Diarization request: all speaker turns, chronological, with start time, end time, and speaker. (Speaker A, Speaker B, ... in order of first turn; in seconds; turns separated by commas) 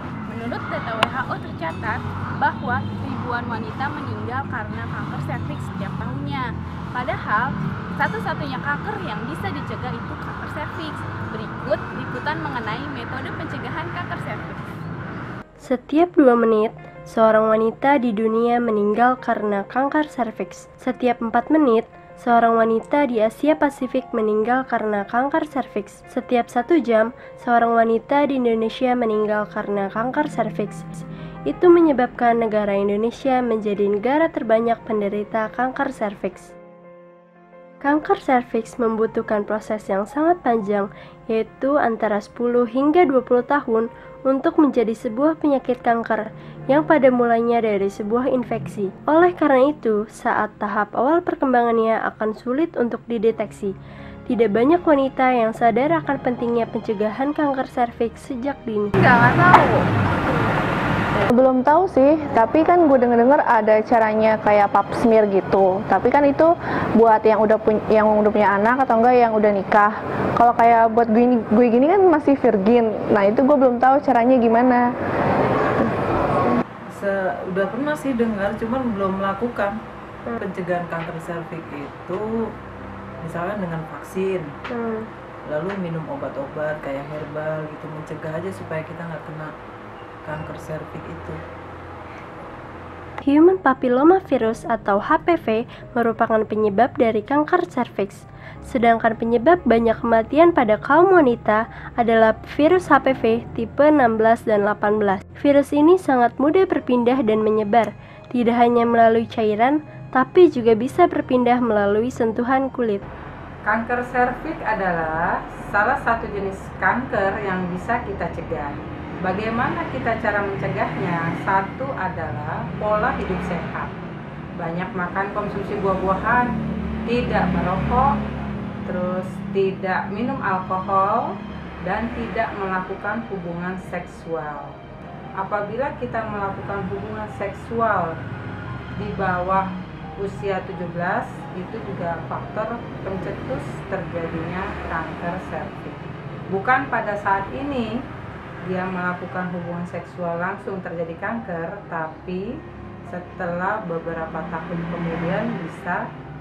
Speaker A: 0.3-14.6, Speaker B: 15.6-36.5, Speaker B: 37.8-53.7, Speaker B: 54.3-59.0, Speaker A: 59.0-59.8, Speaker C: 61.3-74.8, Speaker D: 76.9-79.8, Speaker D: 80.4-82.2, Speaker D: 83.2-84.5, Speaker B: 84.7-85.1, Speaker D: 85.5-89.5, Speaker D: 90.2-91.4, Speaker B: 93.2-113.0, Speaker E: 113.7-123.9, Speaker E: 124.6-126.5, Speaker E: 127.1-128.1, Speaker E: 128.9-131.2, Speaker E: 131.8-134.8, Speaker E: 135.4-138.2, Speaker E: 139.0-139.7, Speaker E: 140.2-147.9, Speaker E: 148.6-152.5, Speaker E: 153.1-156.1